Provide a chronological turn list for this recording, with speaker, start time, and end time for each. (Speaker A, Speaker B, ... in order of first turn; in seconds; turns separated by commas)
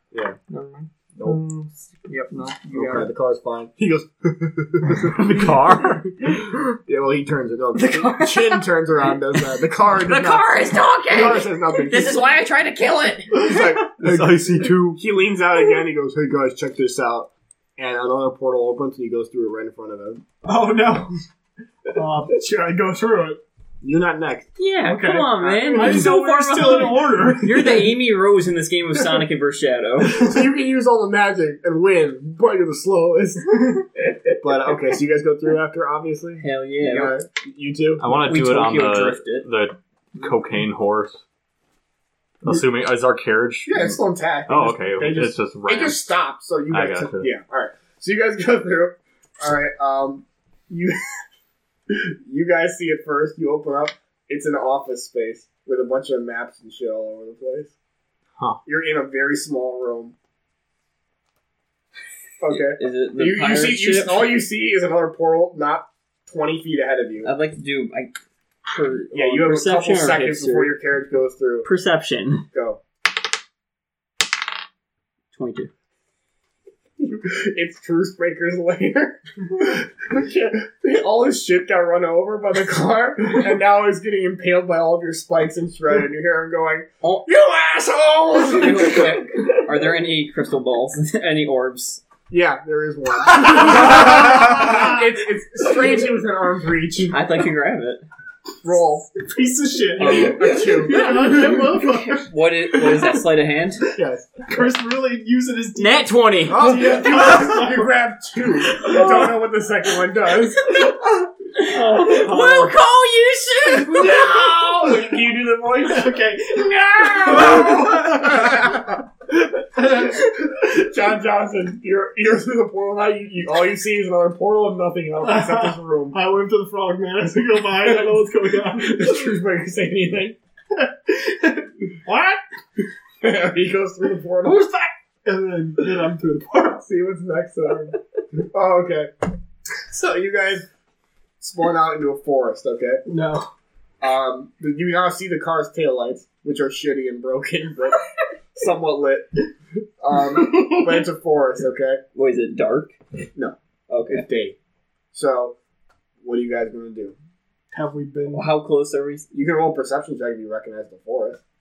Speaker A: 0.5-3.1, Speaker B: 1.2-1.4, Speaker B: 2.7-5.5, Speaker C: 5.1-6.2, Speaker B: 6.2-12.2, Speaker D: 10.0-13.6, Speaker B: 13.3-20.2, Speaker C: 14.0-15.0, Speaker E: 20.4-21.1, Speaker E: 21.9-23.4, Speaker B: 23.8-24.5, Speaker D: 24.6-30.3, Speaker E: 24.8-28.0, Speaker B: 25.7-26.0, Speaker B: 30.1-33.6, Speaker B: 34.4-38.2, Speaker D: 36.4-37.2, Speaker C: 38.0-41.2, Speaker D: 38.2-39.5, Speaker C: 42.4-46.1, Speaker B: 43.6-50.9, Speaker C: 46.7-47.3, Speaker B: 51.9-57.7, Speaker B: 58.6-60.1, Speaker B: 62.4-67.3, Speaker D: 62.5-64.4, Speaker D: 67.2-68.1, Speaker D: 68.7-70.7, Speaker B: 69.1-71.7, Speaker D: 71.6-72.5, Speaker B: 72.5-72.8, Speaker D: 75.3-75.7, Speaker B: 77.0-89.3, Speaker D: 87.0-87.3, Speaker D: 88.3-92.0, Speaker B: 92.3-97.2, Speaker E: 93.8-94.8, Speaker D: 97.1-98.0, Speaker B: 98.6-99.1, Speaker E: 99.2-103.2, Speaker D: 100.0-103.9, Speaker B: 100.0-101.3, Speaker B: 103.9-104.7, Speaker E: 104.5-107.9, Speaker D: 105.8-107.0, Speaker B: 106.5-110.9, Speaker D: 111.5-114.2, Speaker E: 111.7-112.7, Speaker B: 113.9-116.3, Speaker E: 115.9-118.8, Speaker B: 117.0-118.9, Speaker E: 119.8-120.2, Speaker B: 119.9-126.2, Speaker E: 125.2-129.2, Speaker B: 127.7-130.4, Speaker E: 130.8-132.4, Speaker B: 133.2-134.7, Speaker E: 135.2-136.8, Speaker B: 136.8-139.1, Speaker B: 139.9-140.7, Speaker B: 141.4-143.0, Speaker E: 143.1-143.5, Speaker B: 144.0-148.0, Speaker B: 148.5-149.3, Speaker B: 150.0-152.0, Speaker D: 152.1-152.9, Speaker D: 153.9-154.2, Speaker B: 154.1-154.6, Speaker B: 155.1-155.6, Speaker B: 156.2-157.2, Speaker E: 157.7-158.5, Speaker D: 158.3-159.3, Speaker B: 159.3-161.4